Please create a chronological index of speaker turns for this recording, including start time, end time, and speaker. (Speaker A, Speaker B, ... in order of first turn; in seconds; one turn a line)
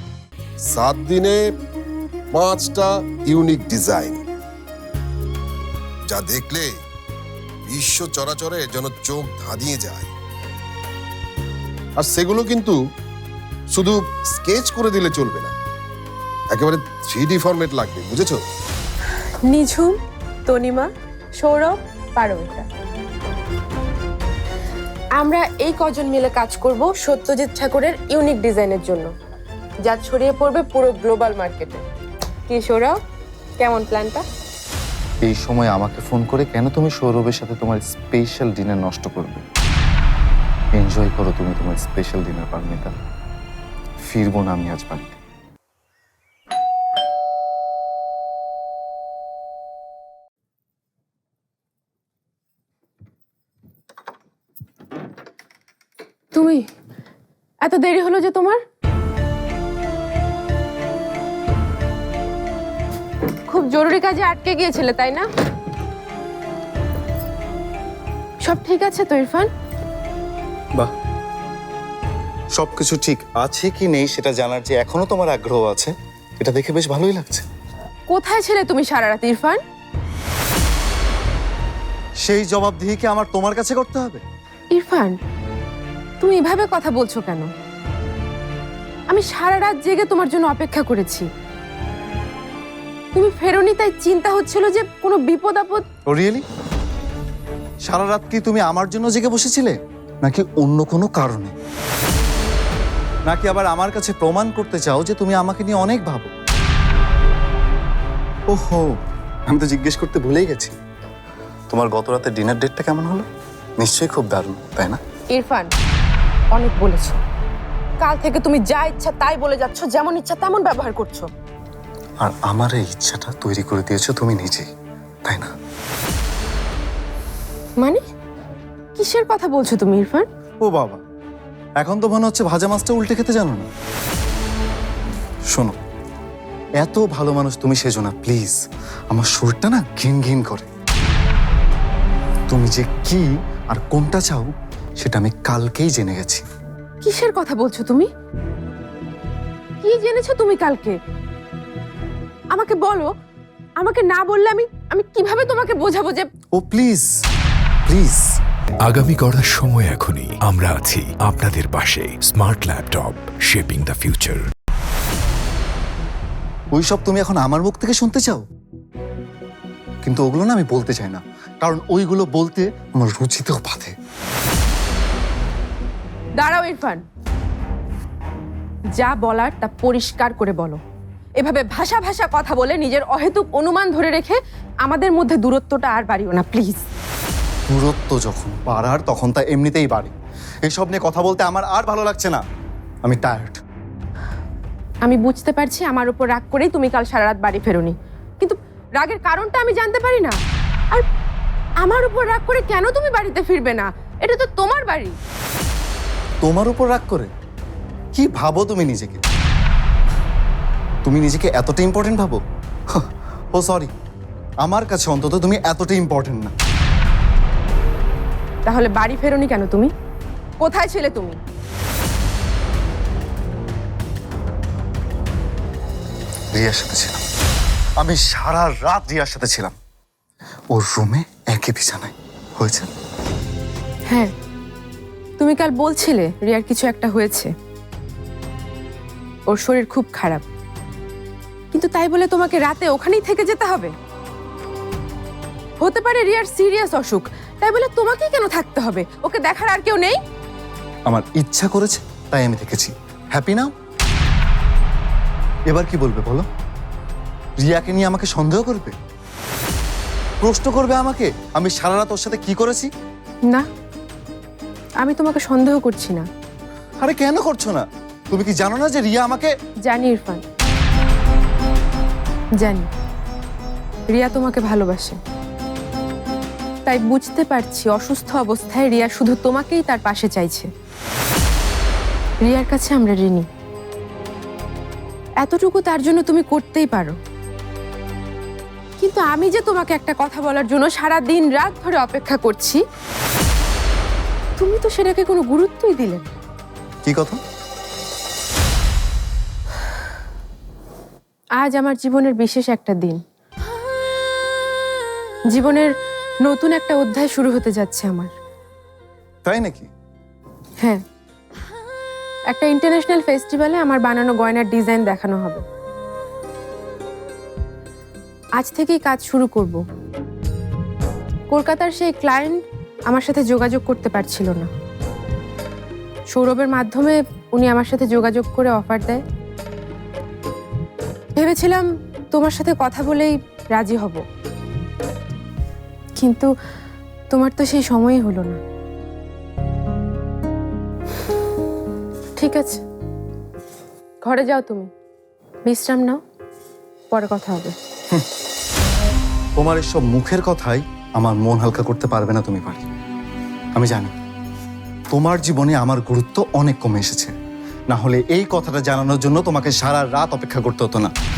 Speaker A: 0.7-1.5
Speaker A: 2.3-4.2
Speaker A: 6.1-6.8
Speaker A: 7.7-10.1
Speaker A: 12.0-12.8
Speaker A: 13.7-15.5
Speaker A: 16.5-18.4
Speaker B: 19.5-22.7
Speaker B: 25.2-29.1
Speaker B: 29.8-31.8
Speaker B: 32.5-33.0
Speaker B: 33.6-34.2
Speaker C: 35.3-39.4
Speaker C: 40.7-42.9
Speaker C: 44.1-45.2
Speaker B: 56.3-56.6
Speaker B: 57.6-58.6
Speaker B: 63.5-65.3
Speaker B: 68.4-69.5
Speaker C: 72.5-77.5
Speaker B: 78.1-79.6
Speaker C: 82.2-84.2
Speaker B: 84.7-85.2
Speaker B: 86.2-87.5
Speaker B: 89.1-91.3
Speaker B: 93.1-95.8
Speaker C: 96.1-96.5
Speaker C: 97.8-101.5
Speaker C: 103.3-106.3
Speaker C: 108.5-109.0
Speaker C: 109.5-110.7
Speaker C: 111.7-113.3
Speaker C: 113.8-115.0
Speaker B: 115.3-115.7
Speaker B: 116.5-117.2
Speaker B: 118.0-121.3
Speaker C: 122.2-124.7
Speaker B: 128.9-130.3
Speaker C: 130.7-131.0
Speaker C: 131.8-133.7
Speaker C: 135.5-135.8
Speaker C: 136.8-138.6
Speaker C: 139.1-140.7
Speaker C: 142.5-146.4
Speaker B: 147.0-148.1
Speaker B: 149.8-151.0
Speaker B: 152.5-153.1
Speaker B: 153.8-156.3
Speaker C: 156.5-157.1
Speaker C: 157.9-158.3
Speaker D: 158.9-164.4
Speaker C: 166.7-168.4
Speaker C: 170.0-173.9
Speaker B: 176.4-177.0
Speaker B: 179.0-180.8
Speaker B: 181.4-186.8
Speaker C: 187.7-190.1
Speaker C: 190.6-192.4
Speaker C: 193.1-193.6
Speaker B: 195.0-200.4
Speaker B: 201.8-205.2
Speaker C: 206.4-207.3
Speaker C: 208.1-209.2
Speaker C: 211.1-212.4
Speaker C: 212.9-213.9
Speaker C: 214.6-216.5
Speaker B: 218.7-219.9
Speaker B: 220.6-221.4
Speaker C: 226.5-227.2
Speaker C: 228.0-229.8
Speaker C: 230.7-232.9
Speaker B: 235.4-237.5
Speaker B: 239.5-240.4
Speaker B: 241.7-243.9
Speaker B: 245.8-250.2
Speaker C: 251.1-253.7
Speaker C: 255.7-256.5
Speaker C: 257.6-258.9
Speaker C: 260.4-262.9
Speaker B: 265.0-266.3
Speaker C: 267.0-269.5
Speaker B: 269.9-270.4
Speaker B: 272.6-272.9
Speaker B: 274.1-275.2
Speaker B: 276.9-280.7
Speaker B: 282.4-283.5
Speaker B: 285.4-287.2
Speaker B: 289.0-292.8
Speaker B: 294.6-296.3
Speaker C: 297.1-297.4
Speaker B: 301.6-303.2
Speaker B: 305.5-305.9
Speaker B: 306.4-308.3
Speaker C: 309.5-309.9
Speaker B: 312.5-315.6
Speaker B: 318.6-319.8
Speaker B: 321.5-324.7
Speaker B: 326.3-329.2
Speaker B: 331.4-334.2
Speaker B: 336.2-336.5
Speaker B: 337.3-338.6
Speaker B: 342.4-342.8
Speaker B: 344.2-344.9
Speaker B: 345.7-346.2
Speaker B: 347.1-347.8
Speaker C: 349.6-352.9
Speaker C: 353.8-354.1
Speaker C: 355.1-357.3
Speaker C: 357.9-361.1